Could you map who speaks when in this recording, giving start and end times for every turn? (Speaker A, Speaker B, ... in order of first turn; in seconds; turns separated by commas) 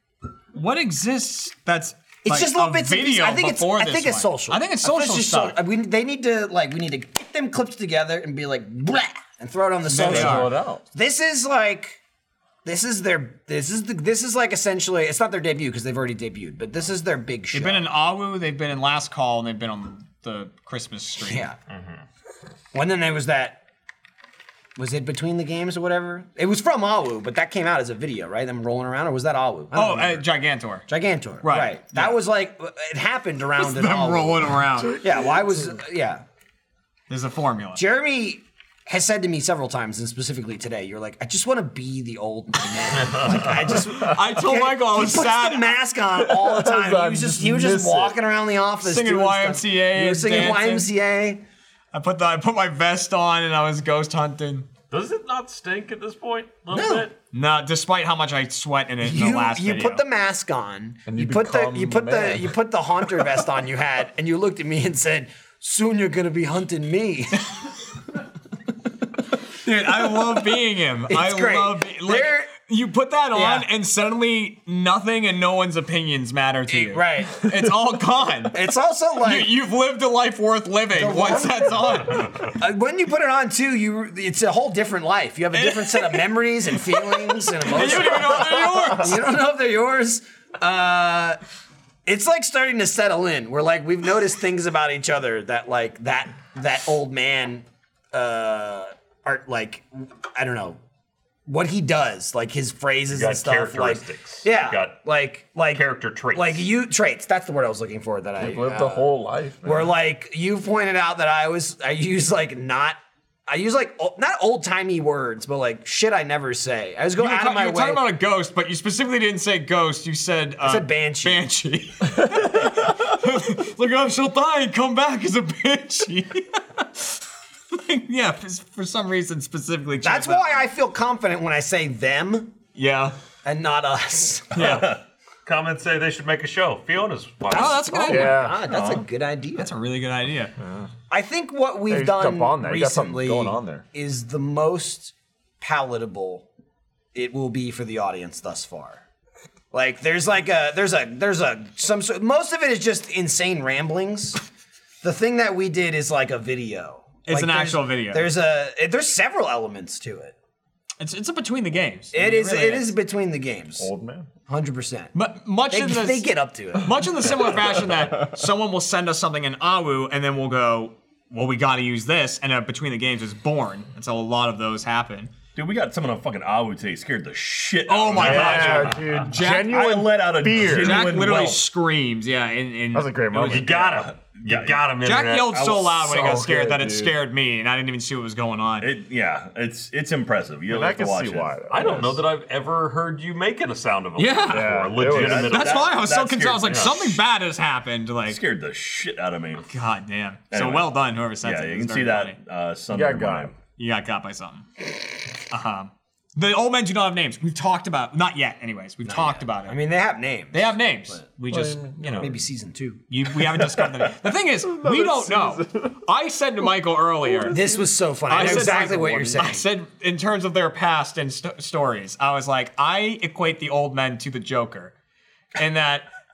Speaker A: 0.5-5.6, Speaker B: 2.2-12.0, Speaker A: 9.9-10.6, Speaker C: 9.9-10.8, Speaker B: 12.7-17.9, Speaker A: 17.5-21.5, Speaker B: 21.2-21.6, Speaker D: 21.7-22.0, Speaker B: 22.7-23.6, Speaker B: 24.8-30.3, Speaker A: 29.7-30.9, Speaker B: 30.9-36.2, Speaker A: 31.4-32.2, Speaker A: 33.6-35.0, Speaker C: 35.1-35.6, Speaker A: 37.1-37.8, Speaker B: 37.8-51.4, Speaker A: 44.0-45.8, Speaker C: 46.2-48.2, Speaker A: 48.8-50.9, Speaker A: 51.9-54.7, Speaker D: 54.9-57.1, Speaker B: 56.7-57.1, Speaker A: 57.3-60.0, Speaker B: 59.0-67.5, Speaker C: 61.1-62.6, Speaker A: 69.6-78.6, Speaker B: 71.1-72.5, Speaker B: 73.3-73.7, Speaker B: 76.7-77.4, Speaker B: 78.5-79.5, Speaker A: 79.2-82.3, Speaker B: 80.9-91.4, Speaker A: 85.5-86.3, Speaker A: 86.9-89.2, Speaker B: 92.1-100.8, Speaker B: 101.5-109.1, Speaker D: 103.1-105.0, Speaker D: 105.7-106.7, Speaker C: 108.4-109.9, Speaker B: 109.6-118.1, Speaker A: 117.2-127.1, Speaker B: 120.6-121.5, Speaker A: 127.7-130.7, Speaker B: 130.0-132.6, Speaker A: 132.8-133.2, Speaker B: 133.4-134.9, Speaker A: 134.5-135.0, Speaker D: 135.5-137.8, Speaker B: 137.5-139.7, Speaker A: 137.5-138.4, Speaker C: 138.1-138.7, Speaker E: 138.7-139.1, Speaker A: 139.6-140.5, Speaker C: 140.6-140.9, Speaker B: 141.1-146.5, Speaker C: 141.9-143.8, Speaker B: 147.1-149.0, Speaker B: 149.7-154.4, Speaker B: 155.0-160.3, Speaker A: 157.3-158.3, Speaker A: 161.0-162.9, Speaker B: 162.1-163.9, Speaker C: 163.8-164.3, Speaker B: 164.5-165.1, Speaker A: 165.1-175.3, Speaker B: 165.7-167.3, Speaker E: 175.6-181.6, Speaker A: 177.9-179.8, Speaker D: 178.1-179.3, Speaker C: 178.2-181.2, Speaker A: 180.7-183.7, Speaker C: 182.9-183.9, Speaker D: 183.5-185.7, Speaker E: 183.7-184.8, Speaker A: 185.0-188.9, Speaker E: 185.5-185.9, Speaker C: 185.9-187.2, Speaker E: 188.8-192.1, Speaker C: 190.7-192.2, Speaker D: 191.7-196.0, Speaker A: 194.2-194.8, Speaker C: 194.5-195.6, Speaker E: 195.0-197.0, Speaker A: 195.5-198.4, Speaker D: 196.7-197.1, Speaker E: 198.3-199.7, Speaker A: 199.7-202.4, Speaker E: 200.5-203.6, Speaker C: 202.9-203.5, Speaker A: 203.8-204.8, Speaker A: 205.4-209.8, Speaker B: 209.0-211.2, Speaker A: 210.5-212.3, Speaker C: 211.5-212.3, Speaker B: 212.2-213.0, Speaker A: 213.1-217.6, Speaker C: 214.6-216.0, Speaker C: 217.2-219.6, Speaker B: 217.5-219.6, Speaker A: 218.3-224.9, Speaker A: 225.6-226.1